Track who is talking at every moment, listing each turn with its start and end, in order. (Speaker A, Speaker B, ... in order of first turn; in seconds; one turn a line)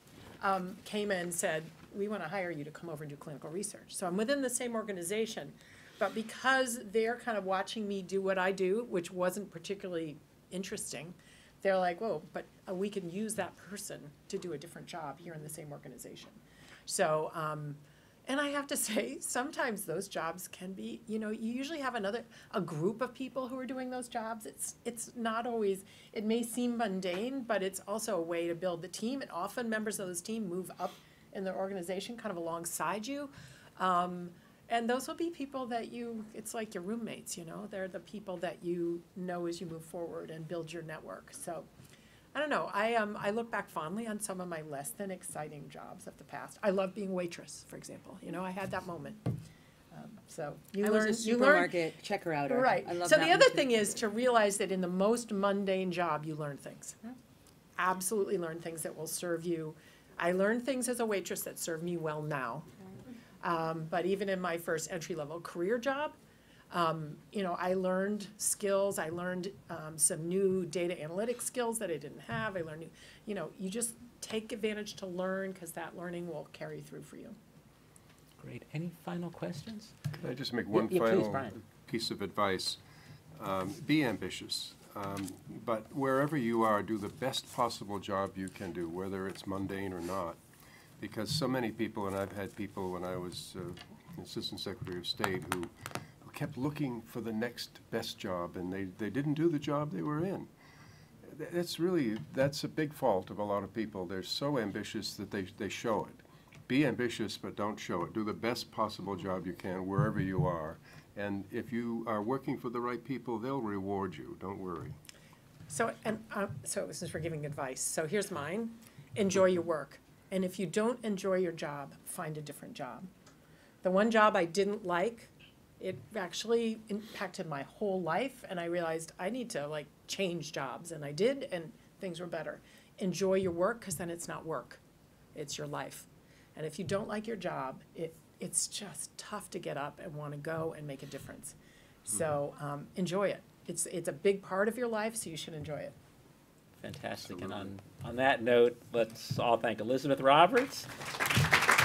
Speaker A: 0.4-41.7
Speaker A: 42.3-49.3
Speaker A: 49.9-51.7
Speaker B: 50.8-53.9
Speaker A: 52.5-57.1
Speaker A: 57.8-62.7
Speaker A: 63.4-66.2
Speaker A: 66.7-77.3
Speaker C: 78.4-80.0
Speaker D: 80.2-82.8
Speaker C: 80.7-81.5
Speaker D: 83.3-90.4
Speaker D: 91.0-100.5
Speaker D: 101.2-115.0
Speaker A: 115.7-123.1
Speaker A: 123.8-134.8
Speaker A: 135.3-145.9
Speaker C: 146.8-150.9